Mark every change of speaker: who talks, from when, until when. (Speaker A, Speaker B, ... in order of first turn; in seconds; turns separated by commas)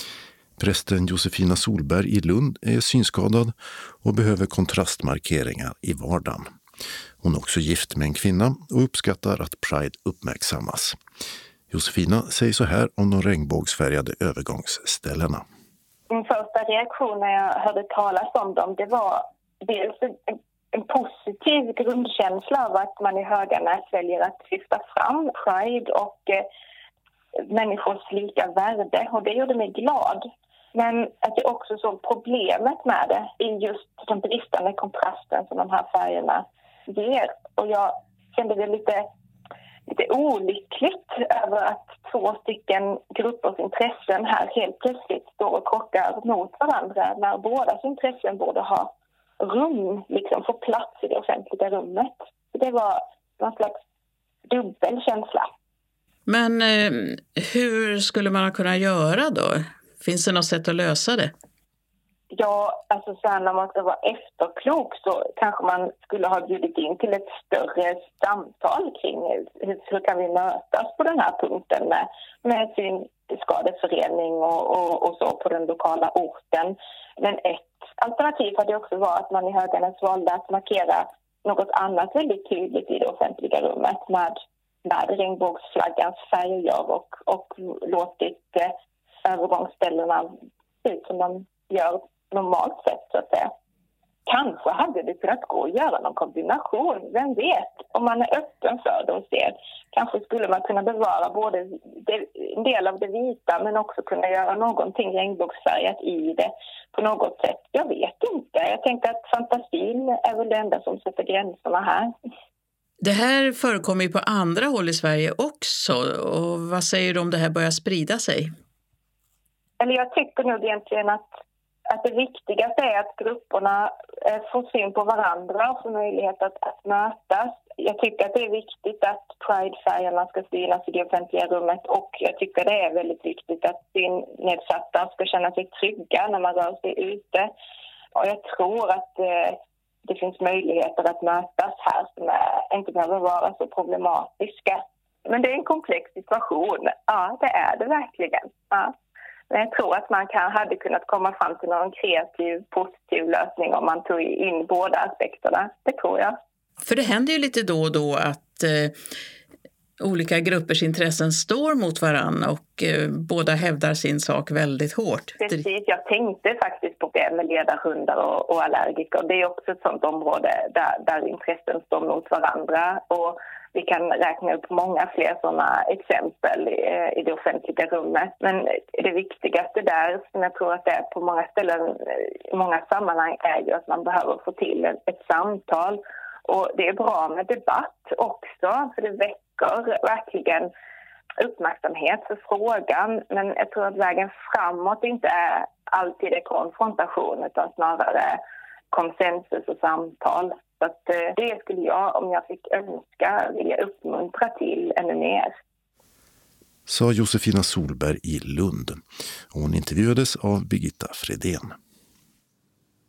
Speaker A: 0.6-6.5, Speaker A: 7.2-11.0, Speaker A: 11.7-15.4, Speaker B: 16.1-20.2, Speaker B: 20.7-26.4, Speaker B: 27.5-39.0, Speaker B: 39.9-53.8, Speaker B: 54.5-55.5, Speaker C: 56.3-61.3, Speaker B: 62.3-88.7, Speaker B: 89.2-90.3, Speaker B: 90.8-93.5, Speaker B: 94.3-112.1, Speaker C: 113.0-118.5, Speaker B: 119.8-121.3, Speaker B: 121.9-137.5, Speaker B: 138.2-148.9, Speaker B: 149.5-156.3, Speaker C: 156.8-158.9, Speaker C: 160.0-165.6, Speaker B: 165.4-190.7, Speaker B: 191.4-198.4, Speaker B: 198.9-205.5, Speaker A: 206.9-211.7